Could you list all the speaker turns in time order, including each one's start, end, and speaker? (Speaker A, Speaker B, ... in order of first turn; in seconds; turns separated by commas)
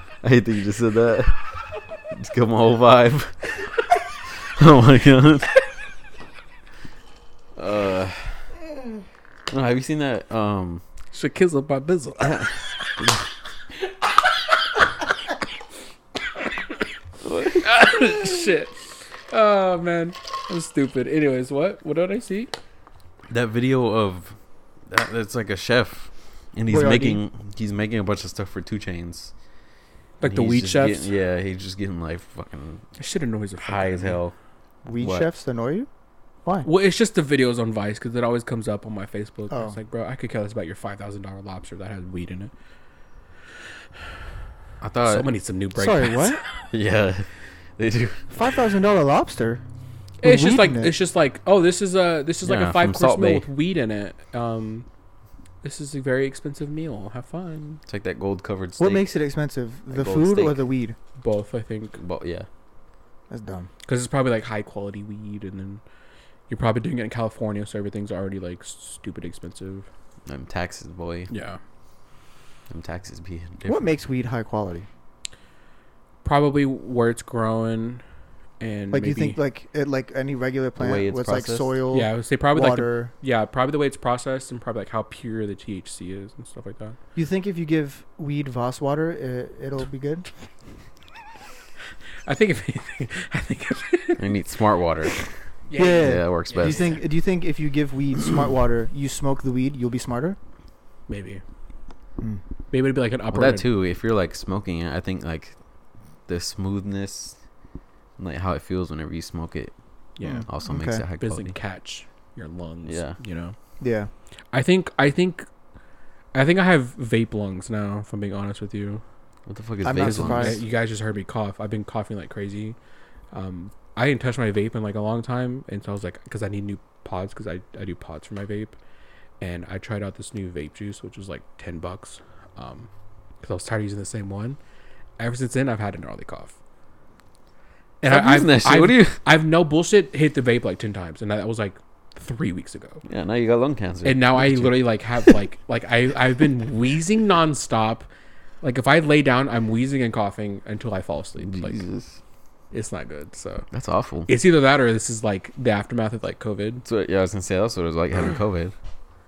Speaker A: 0.2-1.4, Speaker A: 2.1-3.7, Speaker A: 4.6-5.5, Speaker A: 7.6-8.4, Speaker A: 9.5-10.8, Speaker B: 11.1-12.6, Speaker A: 17.2-17.9, Speaker B: 17.5-22.5, Speaker A: 23.3-24.4, Speaker A: 24.9-29.3, Speaker C: 26.7-27.2, Speaker B: 30.2-31.1, Speaker A: 30.2-32.9, Speaker B: 33.0-34.2, Speaker A: 33.6-34.4, Speaker C: 34.9-35.9, Speaker A: 35.0-35.3, Speaker B: 36.6-42.5, Speaker C: 39.5-39.8, Speaker A: 44.8-45.3, Speaker B: 45.0-46.4, Speaker C: 45.8-46.4, Speaker A: 46.7-48.3, Speaker C: 48.3-49.6, Speaker B: 50.2-54.9, Speaker C: 50.2-50.9, Speaker A: 52.4-53.5, Speaker B: 55.6-57.8, Speaker A: 57.9-59.1, Speaker C: 58.8-61.0, Speaker A: 59.9-60.6, Speaker B: 61.2-62.0, Speaker A: 62.0-62.5, Speaker C: 63.3-63.7, Speaker B: 63.9-65.8, Speaker B: 66.5-69.9, Speaker A: 70.3-71.3, Speaker B: 71.3-71.6, Speaker A: 72.7-73.9, Speaker C: 73.7-74.9, Speaker B: 76.2-78.0, Speaker B: 78.6-79.4, Speaker C: 78.9-83.1, Speaker A: 80.8-81.8, Speaker B: 81.9-87.0, Speaker C: 87.2-90.3, Speaker B: 92.3-94.3, Speaker A: 94.2-95.2, Speaker B: 95.7-97.0, Speaker C: 95.8-100.4, Speaker A: 96.0-97.0, Speaker B: 101.1-101.4, Speaker B: 102.7-103.7, Speaker A: 103.3-105.5, Speaker A: 106.3-107.4, Speaker A: 108.2-109.7, Speaker B: 110.2-110.5, Speaker C: 110.2-111.0, Speaker A: 110.5-111.5, Speaker B: 111.2-113.6, Speaker A: 112.9-113.2, Speaker C: 113.8-114.1, Speaker B: 114.5-115.5, Speaker B: 116.3-119.0, Speaker A: 119.5-120.6, Speaker C: 119.8-120.6, Speaker B: 120.0-122.8, Speaker B: 123.3-128.8, Speaker B: 129.4-132.9, Speaker B: 133.4-134.6, Speaker B: 135.2-136.5, Speaker B: 138.0-143.0, Speaker A: 138.1-139.2, Speaker A: 143.1-145.4, Speaker B: 144.1-148.1, Speaker B: 148.6-151.8, Speaker A: 151.4-152.2, Speaker B: 152.7-153.7, Speaker A: 153.7-154.3, Speaker B: 154.3-156.8, Speaker A: 156.8-158.7